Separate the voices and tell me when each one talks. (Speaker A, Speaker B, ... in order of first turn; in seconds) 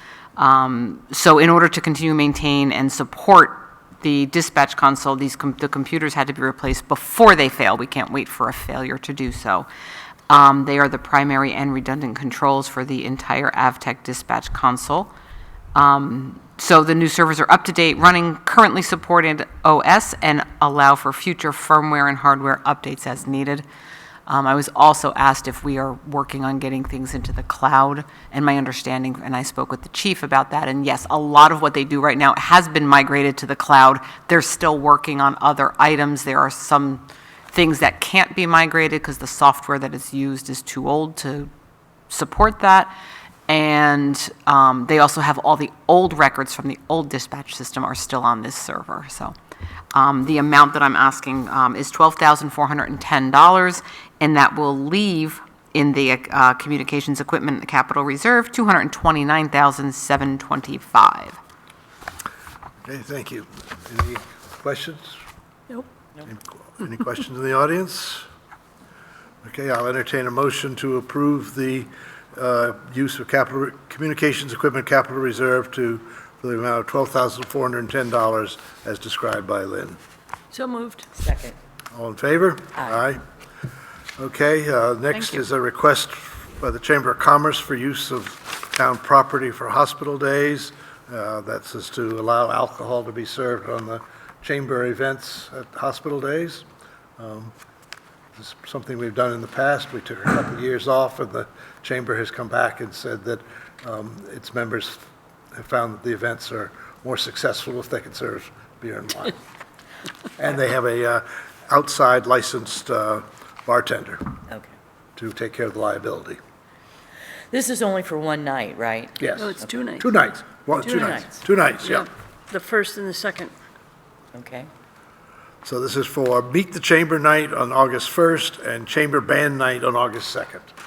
Speaker A: 0.4-9.7, 10.3-15.1, 15.7-23.6, 24.2-41.5, 42.1-42.9, 43.5-49.3, 49.9-61.4
Speaker B: 62.8-65.2, 66.2-68.2, 69.4-80.0, 81.9-83.2, 84.2-96.6, 97.2-97.5, 98.3-105.0, 105.5-109.4, 110.4-114.3, 115.2-116.4, 119.2-122.1, 125.6-130.7
Speaker C: 80.5-81.0, 119.3-120.1, 120.8-121.2, 121.8-123.5
Speaker D: 81.2-81.5, 114.5-114.7, 117.5-119.7, 120.8-121.3, 124.3-124.7